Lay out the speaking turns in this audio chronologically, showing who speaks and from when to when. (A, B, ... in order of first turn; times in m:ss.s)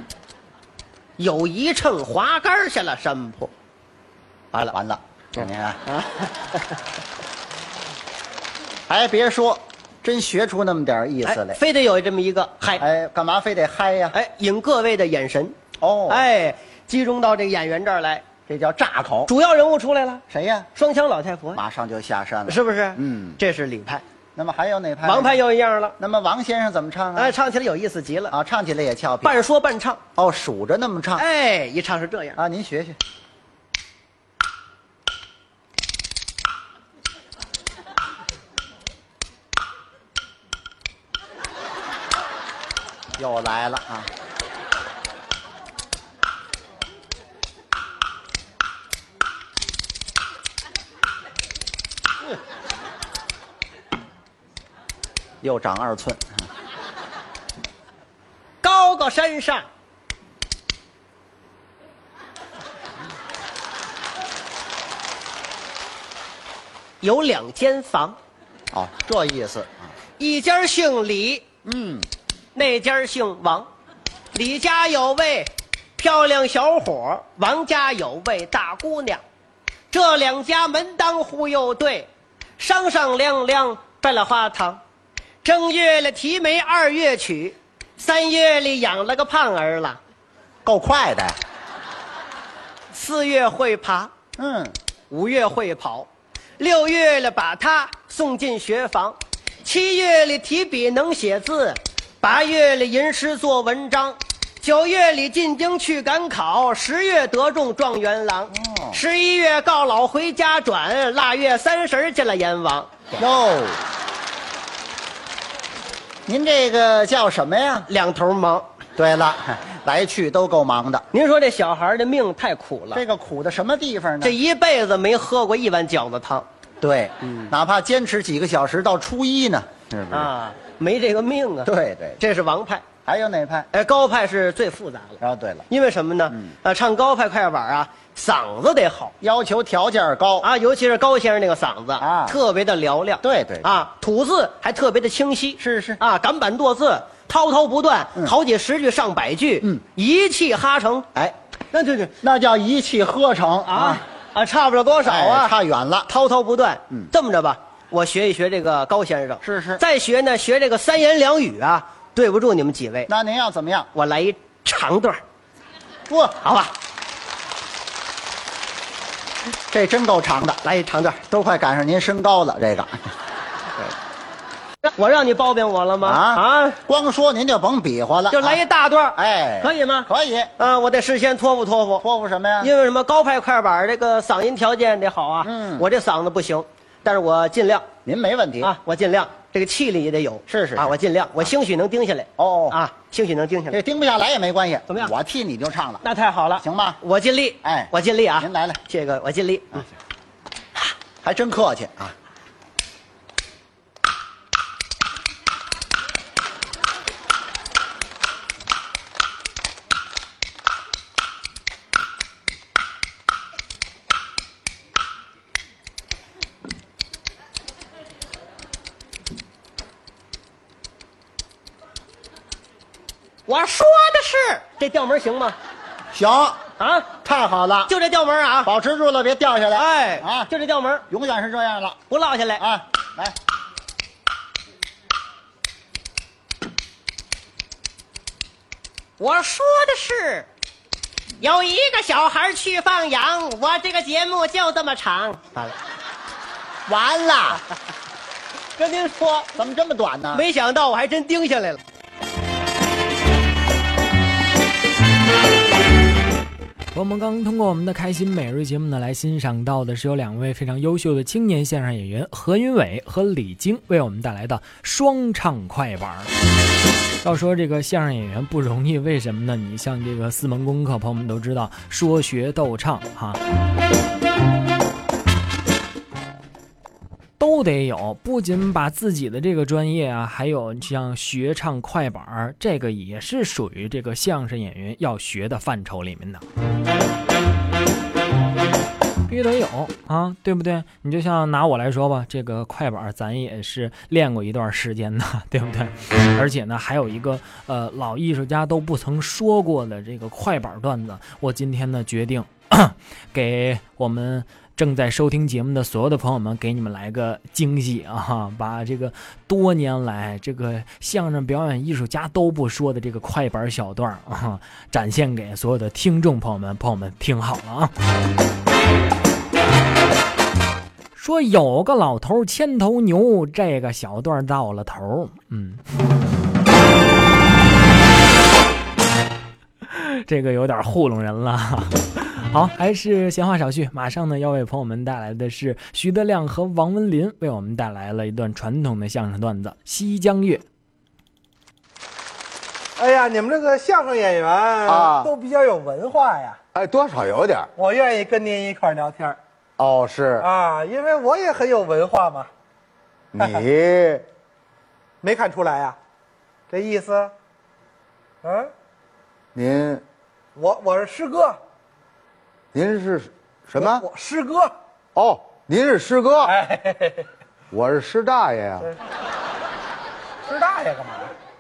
0:01.2-0:03.5 A
0:04.6-0:05.8 B
0:05.4-0:06.6 A
0:08.9-0:11.6 B
0:11.2-0:12.8 A
0:12.8-0:14.2 B
0:14.1-0:15.6 A
0:15.8-0:16.3 B
0:16.1-0:18.3 A
0:18.5-0:19.3 B
0:19.3-0:20.2 A
0:20.3-0:20.7 B
0:20.8-0:21.6 A
0:21.6-0:23.4 B
0:22.5-0:24.0 A
0:24.4-0:25.4 B
0:25.0-0:26.0 A
0:26.0-0:27.4 B
0:27.2-0:28.4 A
0:28.3-0:29.4 B
0:29.2-0:30.0 A
0:30.2-0:31.2 B
0:31.2-0:32.4 A
0:32.4-0:33.0 B
0:43.2-0:44.1 B
0:55.4-0:56.4 B
0:58.6-0:59.7 A
1:07.0-1:08.2 A
1:08.7-1:09.9 B
1:10.2-1:11.4 A
1:11.6-1:12.1 B
1:12.6-1:13.7 A
1:14.3-1:19.2 A
1:19.9-1:22.1 A
1:22.6-1:24.8 A
1:25.4-1:30.0 A
1:30.6-1:31.4 B
1:32.9-1:34.1 A
1:34.4-1:34.8 B
1:35.1-1:36.1 A
1:36.6-1:53.2 A
1:48.5-1:49.0 B
1:53.2-1:53.8 B
1:56.3-1:57.9 B
1:57.9-1:58.7 A
1:59.0-2:01.0 B
2:01.1-2:03.0 A
2:02.9-2:04.4 B
2:04.2-2:06.5 A
2:06.8-2:10.3 B
2:07.2-2:07.5 A
2:10.1-2:12.9 A
2:11.6-2:12.2 B
2:13.0-2:13.7 B
2:13.7-2:19.1 A
2:15.2-2:15.6 B
2:19.2-2:20.5 B
2:20.4-2:31.1 A
2:22.0-2:22.4 B
2:23.2-2:23.7 B
2:25.6-2:26.0 B
2:31.7-2:32.1 A
2:32.2-2:34.0 B
2:33.7-2:35.6 A
2:35.0-2:36.1 B
2:36.1-2:43.1 A
2:39.4-2:39.8 B
2:43.1-2:43.9 B
2:44.0-2:45.2 A
2:46.1-2:46.4 B
2:46.4-2:46.8 A
2:49.7-2:50.6 B
2:50.6-2:51.2 A
2:51.2-2:53.0 B
2:54.8-2:56.8 A
2:56.0-2:58.6 B
2:58.3-3:02.0 A
2:59.2-3:00.5 B
3:02.0-3:02.7 B
3:02.6-3:07.9 A
3:05.4-3:05.9 B
3:08.0-3:08.8 B
3:08.6-3:13.8 A
3:10.5-3:11.4 B
3:12.4-3:12.8 B
3:13.7-3:16.0 B
3:16.0-3:19.9 A
3:16.6-3:17.0 B
3:17.6-3:18.8 B
3:21.2-3:22.2 B
3:43.5-3:45.6 A
3:46.1-3:46.6 B
3:46.8-3:47.1 A
3:47.2-3:47.9 B
3:47.9-3:48.7 A
3:48.6-3:50.5 B
3:49.8-3:51.1 A
3:51.1-3:52.0 B
3:52.1-3:52.6 A
3:52.6-3:53.4 B
3:59.2-4:00.5 A
4:01.4-4:05.8 A
4:06.9-4:07.6 B
4:08.8-4:09.5 A
4:09.6-4:10.4 B
4:10.3-4:11.8 A
4:16.9-4:26.3 C
4:27.2-4:33.4 C
4:37.4-4:46.4 C
4:49.3-5:17.9 C
5:21.2-5:25.8 C
5:29.9-5:40.6 C
5:43.0-5:46.6 D
5:44.9-5:45.3 E
5:46.7-5:47.7 E
5:47.8-5:49.4 D
5:49.8-5:50.5 E
5:50.4-5:52.5 D
5:53.3-5:54.2 E
5:55.2-5:56.0 D
5:56.7-5:57.3 D
5:58.4-5:58.7 D
5:59.6-6:00.0 E
6:00.6-6:01.6 D
6:02.7-6:04.0 E
6:03.8-6:04.7 D
6:05.2-6:06.5 E
6:06.4-6:07.3 D
6:07.7-6:08.9 E
6:10.4-6:11.3 D